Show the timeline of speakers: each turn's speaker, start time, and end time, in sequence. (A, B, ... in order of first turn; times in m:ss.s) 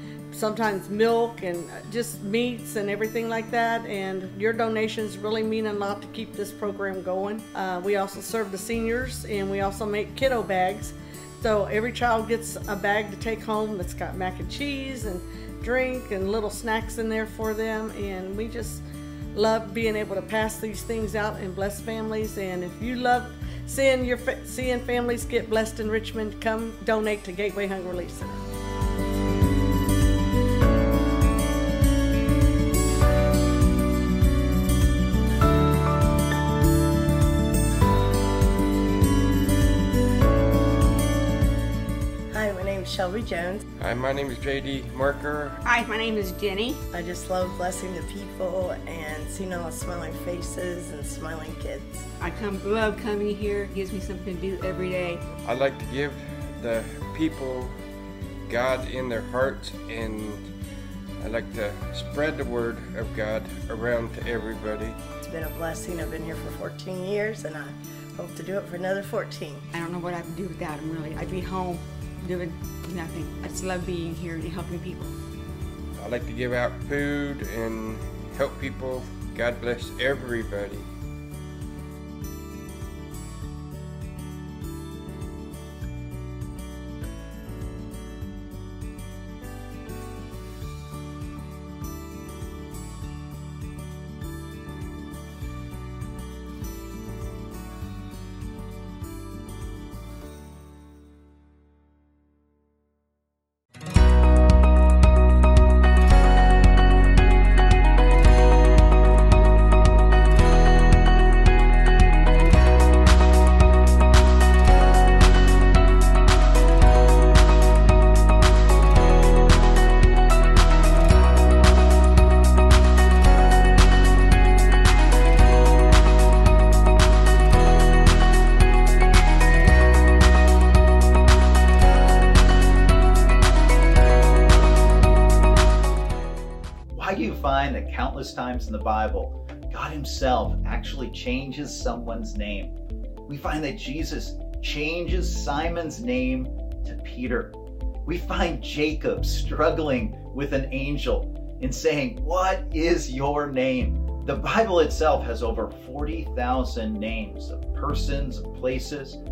0:00.3-0:18.8 A
0:19.4-0:28.4 A
0:42.3-0:43.6 B
0:43.8-0:45.6 C
0:45.6-0:46.8 D
0:46.9-0:52.1 B
0:52.2-0:55.3 D
0:55.3-0:57.8 C
0:58.5-1:00.5 C
1:01.2-1:05.0 C
1:05.2-1:09.7 B
1:09.7-1:15.1 D
1:16.0-1:20.9 C
2:16.9-2:22.8 E
2:23.3-2:39.2 E